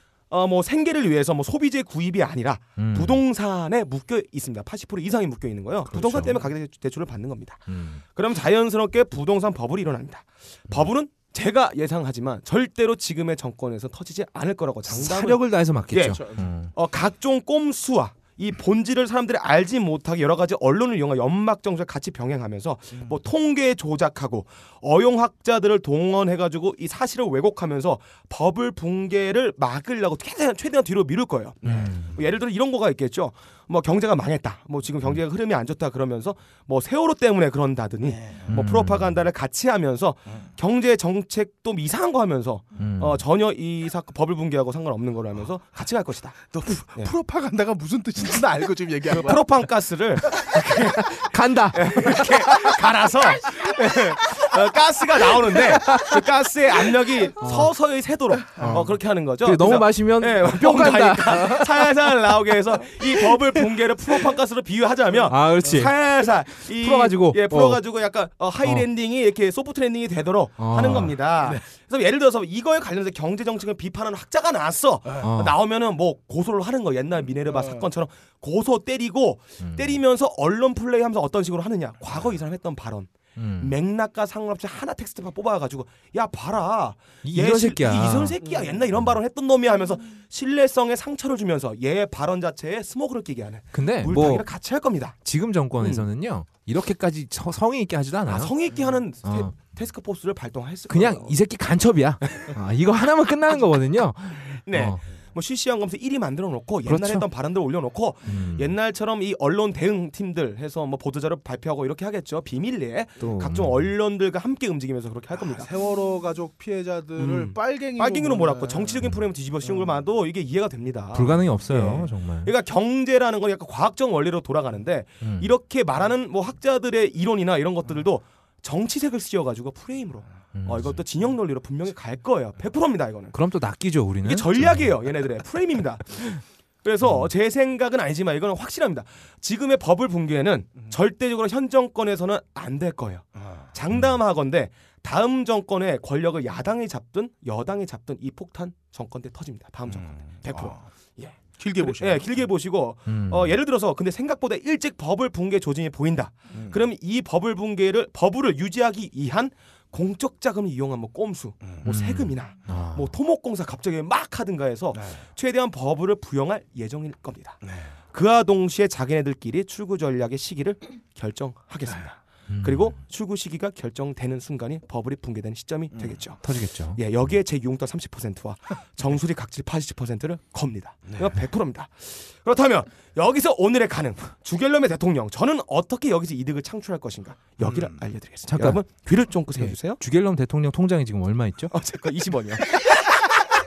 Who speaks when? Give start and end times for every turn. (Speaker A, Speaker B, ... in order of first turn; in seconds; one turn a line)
Speaker A: 0.3-46.4
Speaker B: 2.8-3.2
Speaker B: 5.9-6.4
Speaker B: 7.7-8.0
Speaker B: 14.9-16.7
Speaker C: 16.1-16.4
Speaker C: 31.6-32.0
Speaker B: 31.6-32.1
Speaker C: 38.0-38.5
Speaker B: 38.5-39.2
Speaker B: 42.8-43.2
Speaker C: 46.5-49.7
Speaker A: 49.1-95.2
Speaker C: 50.4-50.6
Speaker B: 51.1-52.8
Speaker B: 55.4-56.8
Speaker B: 57.4-57.7
Speaker C: 58.5-58.9
Speaker B: 58.6-62.3
Speaker B: 63.0-63.6
Speaker B: 65.2-67.8
Speaker B: 68.6-68.8
Speaker B: 70.6-71.2
Speaker B: 75.2-75.6
Speaker C: 77.5-77.9
Speaker B: 79.6-80.0
Speaker B: 83.4-83.7
Speaker B: 87.2-88.4
Speaker B: 93.7-94.5
Speaker B: 95.2-98.5
Speaker A: 95.8-96.0
Speaker A: 98.3-101.4
Speaker B: 99.2-99.5
Speaker B: 100.9-105.0
Speaker A: 102.3-102.5
Speaker A: 104.6-115.7
Speaker B: 106.8-107.2
Speaker B: 108.2-108.7
Speaker B: 113.2-113.9
Speaker C: 115.3-119.0
Speaker A: 117.2-133.4
Speaker C: 119.6-119.9
Speaker B: 121.1-122.5
Speaker B: 125.2-125.5
Speaker B: 130.5-131.0
Speaker B: 133.3-134.9
Speaker A: 134.2-190.0
Speaker B: 137.0-137.3
Speaker C: 143.4-143.6
Speaker C: 149.9-150.9
Speaker C: 151.6-152.3
Speaker B: 153.1-153.6
Speaker C: 156.5-156.8
Speaker C: 161.6-161.9
Speaker B: 161.8-163.2
Speaker C: 164.9-165.2
Speaker C: 167.6-167.9
Speaker B: 172.5-173.0
Speaker C: 175.9-176.2
Speaker B: 176.4-177.0
Speaker C: 187.6-188.0
Speaker B: 188.4-191.7
Speaker A: 191.7-192.8